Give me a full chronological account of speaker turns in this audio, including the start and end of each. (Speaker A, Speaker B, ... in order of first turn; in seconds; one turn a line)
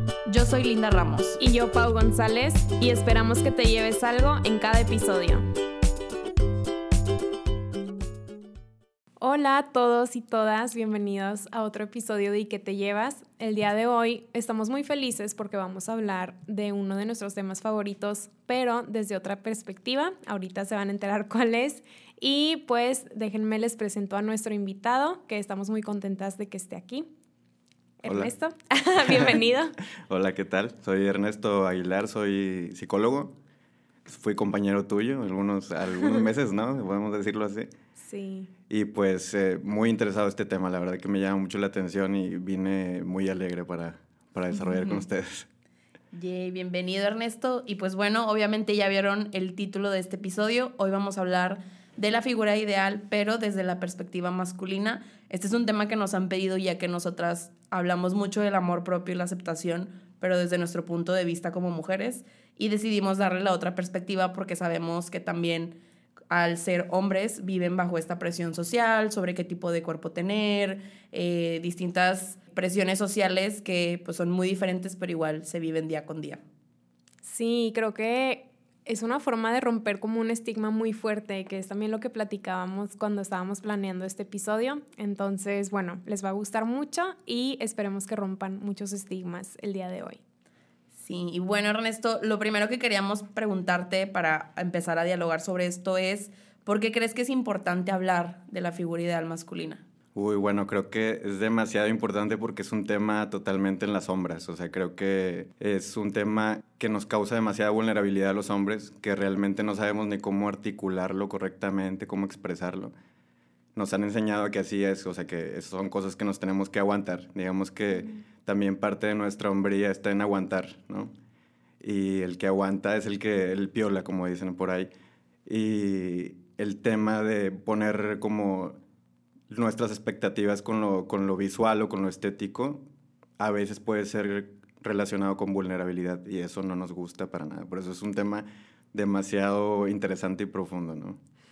Speaker A: 0.2-1.4
Speaker B: 1.4-5.4
Speaker B: 9.2-27.1
Speaker B: 28.0-29.8
Speaker C: 28.0-28.3
Speaker C: 29.0-29.4
Speaker C: 30.1-33.3
Speaker C: 34.0-37.7
Speaker B: 38.0-38.5
Speaker C: 38.7-45.5
Speaker A: 44.6-45.0
Speaker A: 46.1-65.8
Speaker A: 66.3-76.4
Speaker B: 77.2-90.2
Speaker A: 90.9-99.8
Speaker C: 100.1-112.9
Speaker C: 113.7-121.1
Speaker C: 121.8-124.9
Speaker C: 125.5-128.8
Speaker C: 129.5-132.8
Speaker C: 133.4-141.2